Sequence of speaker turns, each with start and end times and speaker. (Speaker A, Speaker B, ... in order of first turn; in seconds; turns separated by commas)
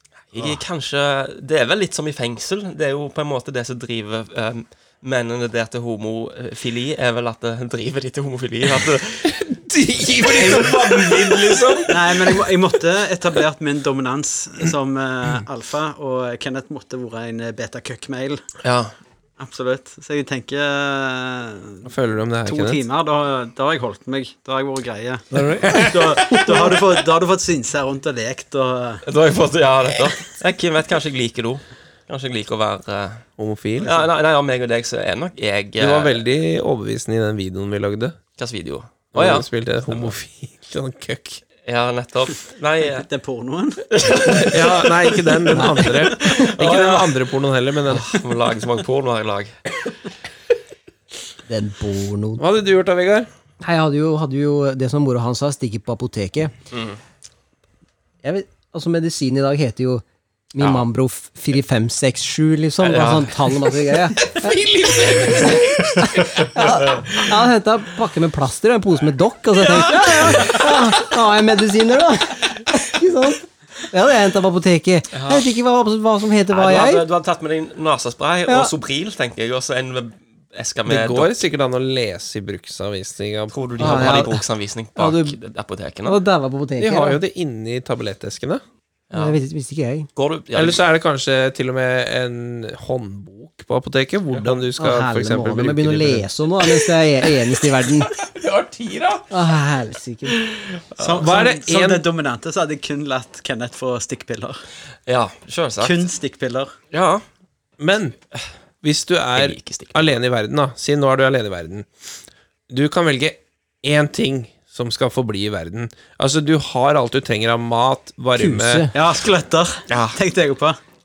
Speaker A: 0.3-9.4, Speaker B: 9.3-12.4, Speaker A: 10.3-12.0, Speaker C: 11.9-18.4, Speaker A: 18.6-18.9, Speaker C: 19.4-21.9, Speaker B: 21.8-22.8, Speaker C: 22.5-29.0, Speaker D: 25.3-26.7, Speaker A: 29.0-33.2, Speaker B: 33.4-34.0, Speaker A: 33.8-36.2, Speaker B: 35.8-38.2, Speaker A: 38.4-40.2, Speaker B: 39.1-41.4, Speaker A: 41.6-43.1, Speaker C: 42.9-44.5, Speaker A: 43.9-47.2, Speaker B: 44.5-48.1, Speaker A: 47.9-49.5, Speaker D: 51.5-52.4, Speaker B: 52.4-53.3, Speaker D: 53.6-56.5, Speaker A: 56.7-57.0, Speaker D: 58.2-64.5, Speaker A: 60.6-60.9, Speaker A: 62.8-63.3, Speaker B: 64.2-66.7, Speaker D: 66.0-77.1, Speaker B: 69.9-70.7, Speaker A: 75.1-75.5, Speaker A: 76.5-81.4, Speaker D: 78.5-78.7, Speaker B: 80.9-84.2, Speaker A: 83.5-86.2, Speaker D: 83.8-84.4, Speaker D: 85.0-85.4, Speaker D: 86.1-87.2, Speaker B: 86.8-88.6, Speaker A: 89.1-89.4, Speaker D: 89.1-90.1, Speaker A: 90.2-90.8, Speaker B: 90.5-96.3, Speaker D: 94.8-98.1, Speaker B: 98.1-99.2, Speaker D: 99.3-100.4, Speaker A: 100.5-101.3, Speaker C: 101.0-104.6, Speaker B: 101.2-102.0, Speaker A: 105.1-106.0, Speaker C: 105.8-106.7, Speaker A: 106.9-107.2, Speaker B: 107.8-108.2, Speaker B: 108.8-111.9, Speaker A: 109.3-110.1, Speaker B: 112.7-118.9, Speaker D: 118.4-118.9, Speaker C: 118.9-120.8, Speaker A: 119.9-120.2